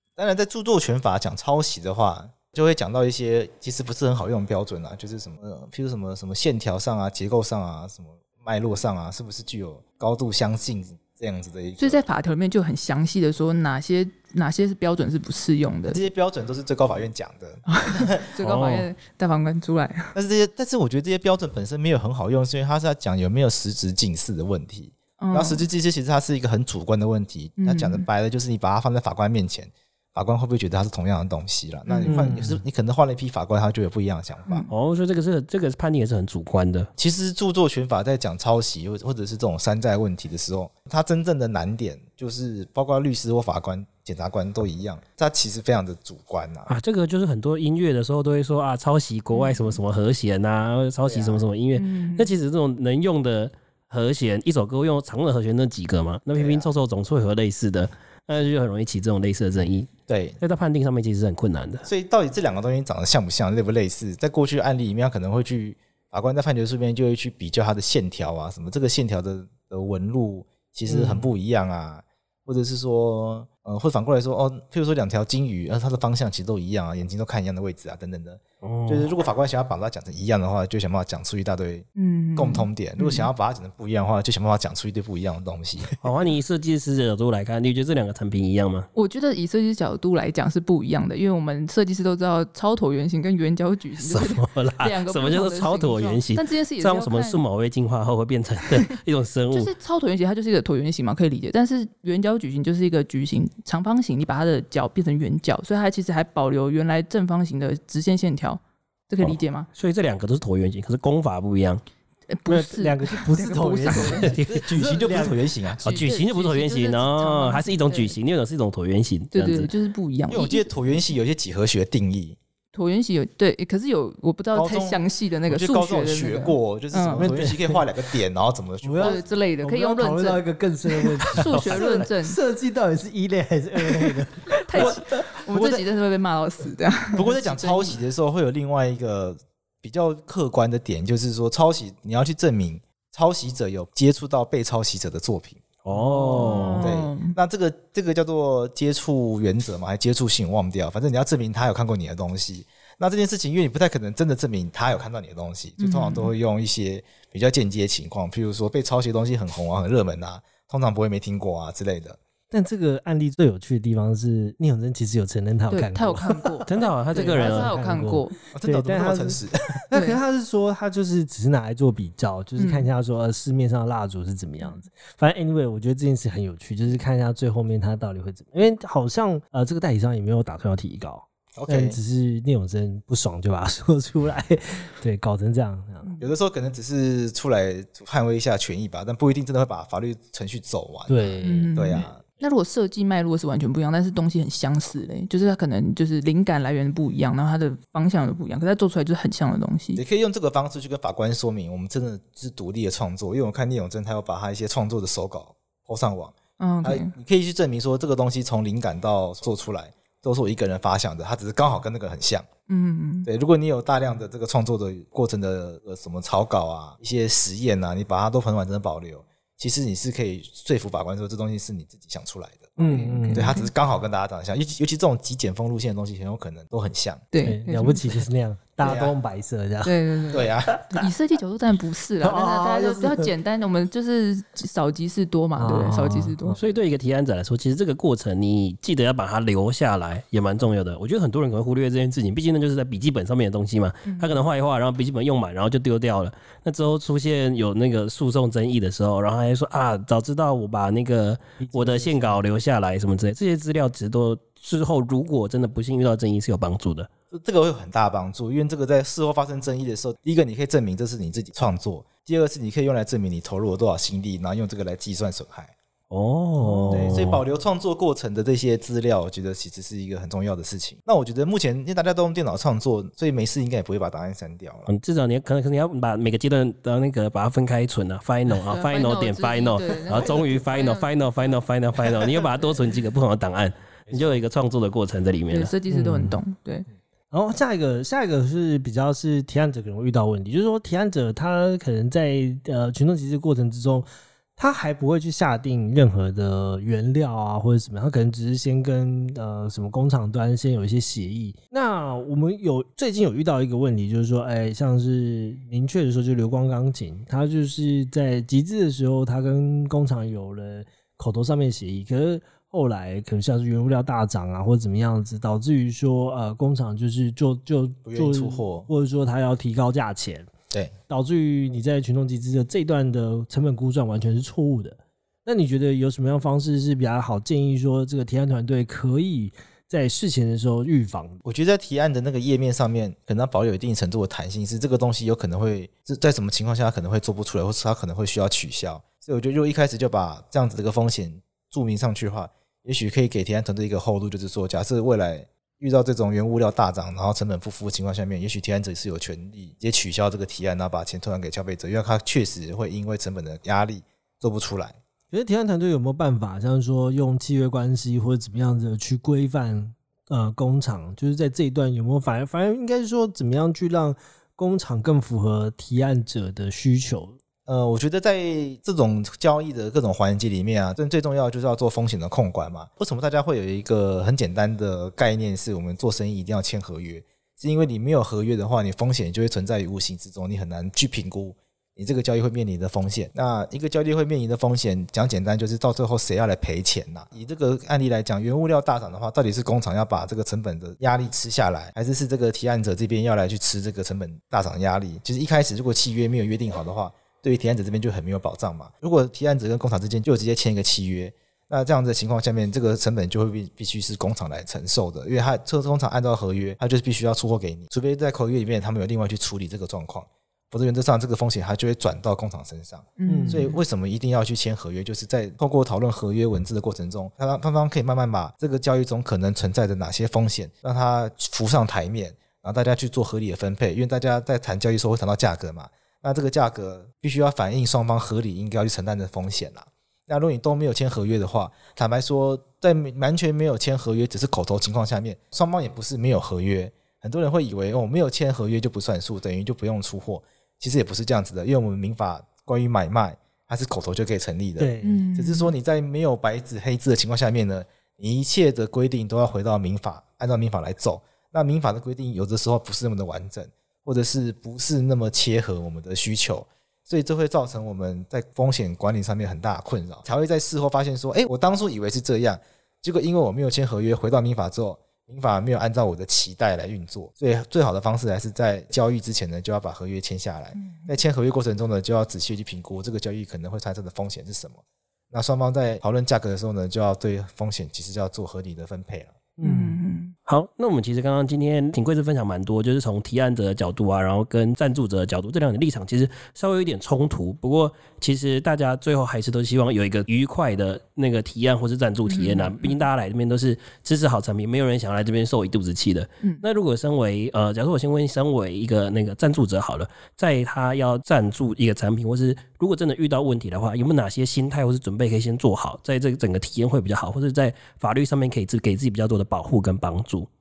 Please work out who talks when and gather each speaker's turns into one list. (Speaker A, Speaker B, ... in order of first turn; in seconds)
Speaker A: 0.2-12.0, 15.9-18.3, 20.1-34.6, 37.0-46.7, 51.0-51.4, 56.3-56.7, 60.1-60.4, 61.9-85.9, 114.5-116.0, 120.3-122.4, 124.5-129.2, 134.8-135.9, 137.1-145.6, 146.8-162.2, 168.5-169.8, 181.6-182.0, 186.2-192.2, 199.9-212.5, 213.2-222.8, 223.3-227.2, 228.8-229.1, 230.3-230.8, 257.3-265.7, 266.9-274.9, 318.1-318.9, 331.4-355.0, 367.7-479.3
Speaker B: 11.8-16.0, 17.7-20.1, 25.2-25.6, 27.6-28.1, 31.9-32.3, 49.3-49.8, 51.7-52.3, 82.0-83.3, 88.9-97.4, 99.5-109.7, 112.3-114.4, 115.8-118.1, 119.3-120.7, 122.7-127.3, 129.0-130.4, 130.9-132.4, 133.9-138.0, 145.9-147.4, 155.8-156.3, 165.7-168.4, 169.9-170.2, 172.6-172.9, 191.4-200.0, 206.6-207.1, 212.7-213.3, 222.8-223.7, 227.3-228.2, 229.8-236.6, 244.1-244.4, 266.6-267.1, 278.6-281.6, 285.5-286.9, 413.2-413.8, 445.0-445.7, 470.7-471.1, 479.6-480.4, 492.2-493.0
Speaker C: 18.4-18.9, 34.7-36.9, 46.7-61.9, 78.6-79.1, 86.0-88.9, 94.0-99.7, 109.2-111.8, 114.0-114.6, 115.8-119.7, 131.4-132.1, 145.8-146.9, 166.7-167.7, 236.6-257.1, 266.1-267.4, 274.9-285.7, 480.5-510.5
Speaker D: 32.0-32.6, 70.9-71.3, 112.5-115.4, 127.1-127.8, 128.8-135.2, 162.5-186.1, 191.1-191.7, 222.8-223.5, 227.4-231.1, 232.2-233.3, 235.6-236.6, 251.6-252.4, 285.9-286.4, 287.3-320.5, 321.1-331.4, 355.3-367.4, 413.2-413.6, 444.8-445.2, 479.6-480.0